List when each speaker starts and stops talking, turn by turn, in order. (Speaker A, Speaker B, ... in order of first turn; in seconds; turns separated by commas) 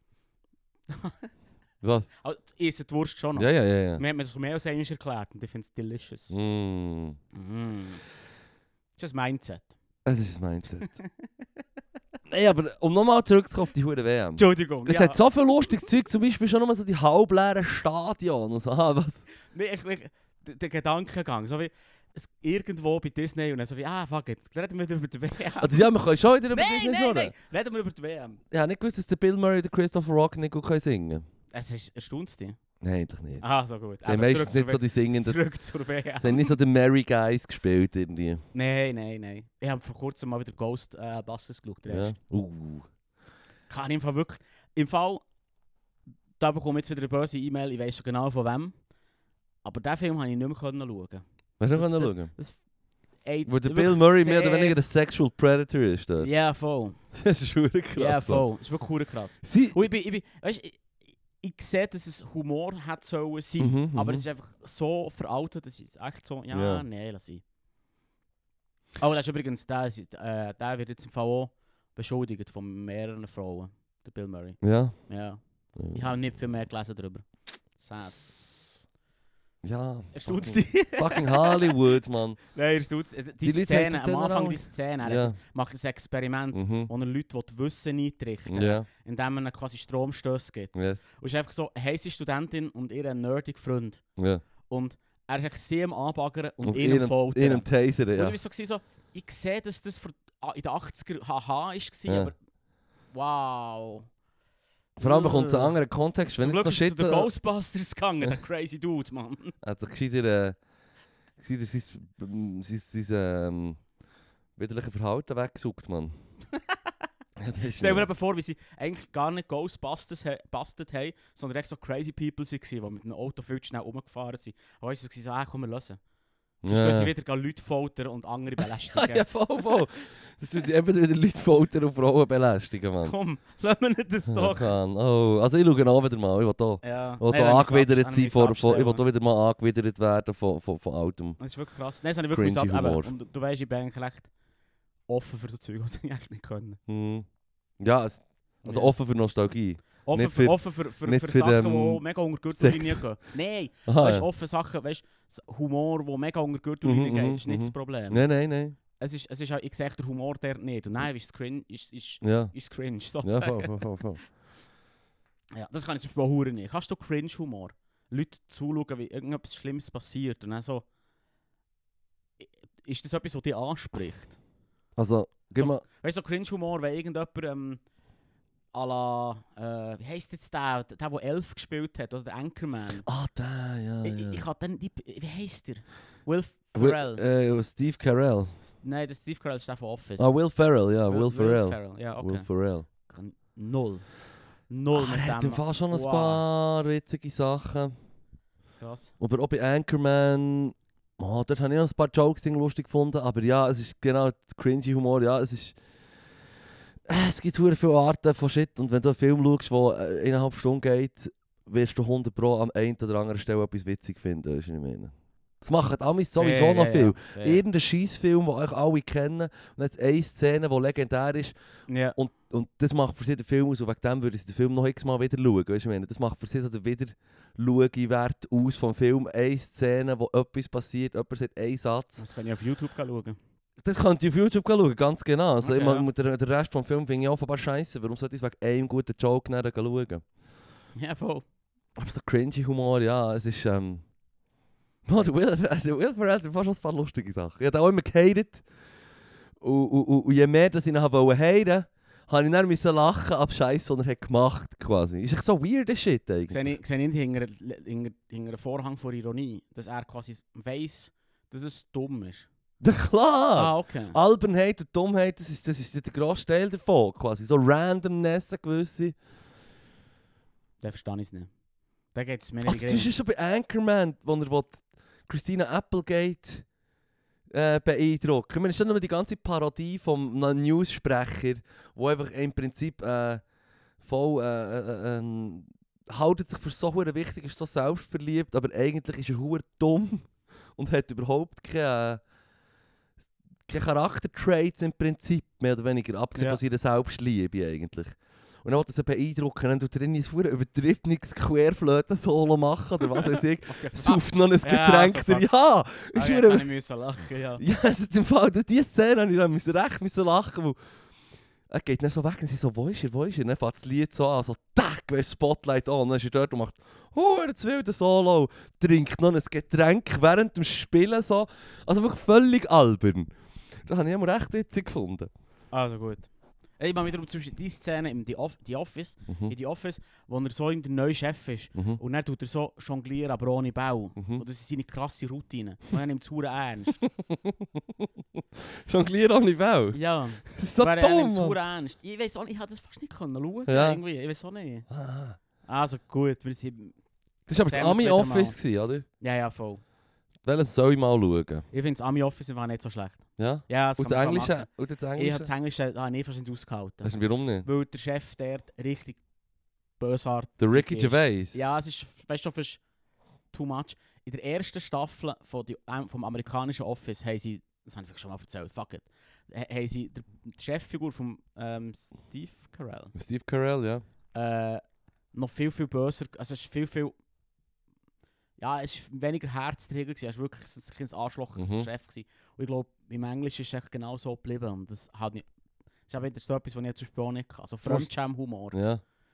Speaker A: 0.9-1.3, Speaker B: 1.8-2.1, Speaker A: 2.2-6.3, Speaker B: 3.4-4.0, Speaker B: 6.3-7.2, Speaker A: 7.3-8.0, Speaker A: 9.0-9.7, Speaker B: 10.1-10.9, Speaker A: 10.8-11.4, Speaker B: 12.3-19.2, Speaker A: 14.4-15.2, Speaker A: 19.5-25.9, Speaker B: 25.6-27.3, Speaker A: 26.5-28.4, Speaker B: 28.5-31.2, Speaker A: 31.5-32.6, Speaker B: 32.8-33.4, Speaker A: 33.4-36.6, Speaker B: 34.0-35.4, Speaker B: 36.2-38.4, Speaker A: 38.5-42.1, Speaker B: 41.9-42.9, Speaker A: 43.7-45.2, Speaker A: 46.4-48.8, Speaker A: 49.6-51.2, Speaker B: 51.6-52.3, Speaker A: 51.8-52.6, Speaker A: 53.2-54.8, Speaker B: 53.5-56.3, Speaker A: 56.2-57.0, Speaker B: 57.1-58.5, Speaker A: 58.0-67.4, Speaker B: 59.4-59.8, Speaker B: 63.6-64.2, Speaker B: 66.5-66.8, Speaker A: 69.0-78.2, Speaker B: 74.6-75.1, Speaker B: 75.8-76.2, Speaker B: 79.6-82.4, Speaker A: 80.1-81.9, Speaker A: 82.5-94.0, Speaker B: 83.4-85.4, Speaker B: 86.5-86.9, Speaker B: 88.5-88.9, Speaker B: 90.8-91.0, Speaker B: 94.2-94.4, Speaker A: 94.7-102.3, Speaker B: 96.6-98.3, Speaker B: 102.1-102.3, Speaker A: 103.1-104.1, Speaker A: 105.0-105.8, Speaker B: 105.0-107.3, Speaker A: 106.4-109.5, Speaker B: 109.6-110.6, Speaker B: 111.4-113.8, Speaker B: 114.6-116.2, Speaker B: 117.4-118.1, Speaker A: 117.8-126.0, Speaker B: 126.6-127.1, Speaker A: 126.7-129.3, Speaker B: 128.6-133.1, Speaker A: 133.0-134.7, Speaker B: 134.3-141.4, Speaker A: 136.8-139.1, Speaker A: 141.4-144.3, Speaker B: 142.3-143.1, Speaker A: 145.1-146.8, Speaker B: 146.9-147.3, Speaker B: 147.8-153.0, Speaker A: 148.6-148.9, Speaker A: 150.1-158.2, Speaker B: 153.9-154.3, Speaker B: 156.8-158.8, Speaker A: 159.0-163.8, Speaker B: 162.2-162.5, Speaker B: 163.2-164.2, Speaker A: 165.5-170.8, Speaker A: 172.4-174.4, Speaker B: 175.0-175.8, Speaker A: 175.6-177.8, Speaker A: 178.7-183.1, Speaker B: 183.1-184.4, Speaker A: 184.0-187.2, Speaker B: 186.7-188.6, Speaker A: 188.7-190.3, Speaker B: 190.2-192.9, Speaker A: 191.1-192.5, Speaker A: 193.1-194.1, Speaker A: 194.7-196.4, Speaker B: 194.9-197.9, Speaker A: 198.8-199.1, Speaker B: 199.2-205.8, Speaker B: 207.1-221.6, Speaker A: 216.4-217.6, Speaker A: 221.9-222.2, Speaker B: 222.1-232.3, Speaker A: 232.2-233.4, Speaker B: 233.8-240.2, Speaker A: 235.6-236.1, Speaker A: 240.9-241.4, Speaker B: 241.9-244.1, Speaker B: 245.1-248.6, Speaker B: 249.6-256.7, Speaker A: 256.5-262.5, Speaker B: 262.8-269.2, Speaker A: 263.5-264.2, Speaker A: 270.8-271.5, Speaker A: 272.1-273.1, Speaker B: 272.6-276.6, Speaker B: 277.5-283.4, Speaker B: 284.0-292.2, Speaker B: 293.7-306.7, Speaker A: 303.2-305.5, Speaker A: 306.1-307.6, Speaker B: 307.6-310.8, Speaker B: 311.7-323.3, Speaker B: 323.9-325.3, Speaker A: 325.7-326.3, Speaker A: 326.8-337.0, Speaker B: 329.3-329.5, Speaker B: 331.8-332.0, Speaker B: 334.2-334.4, Speaker B: 337.1-338.1, Speaker B: 338.6-341.6, Speaker A: 339.9-344.9, Speaker B: 343.7-344.0, Speaker B: 344.9-345.4, Speaker A: 345.6-346.9, Speaker B: 347.5-349.1, Speaker A: 347.6-348.6, Speaker A: 349.2-349.8, Speaker B: 350.4-351.6, Speaker A: 351.7-359.2, Speaker B: 353.4-355.5, Speaker B: 357.0-357.7, Speaker A: 360.0-362.8, Speaker B: 360.6-361.6, Speaker A: 363.5-373.1, Speaker B: 373.1-374.0, Speaker A: 374.3-374.8, Speaker A: 375.3-377.1, Speaker A: 378.6-385.4, Speaker B: 381.6-381.9, Speaker A: 386.1-388.8, Speaker B: 387.8-388.1, Speaker B: 388.7-389.0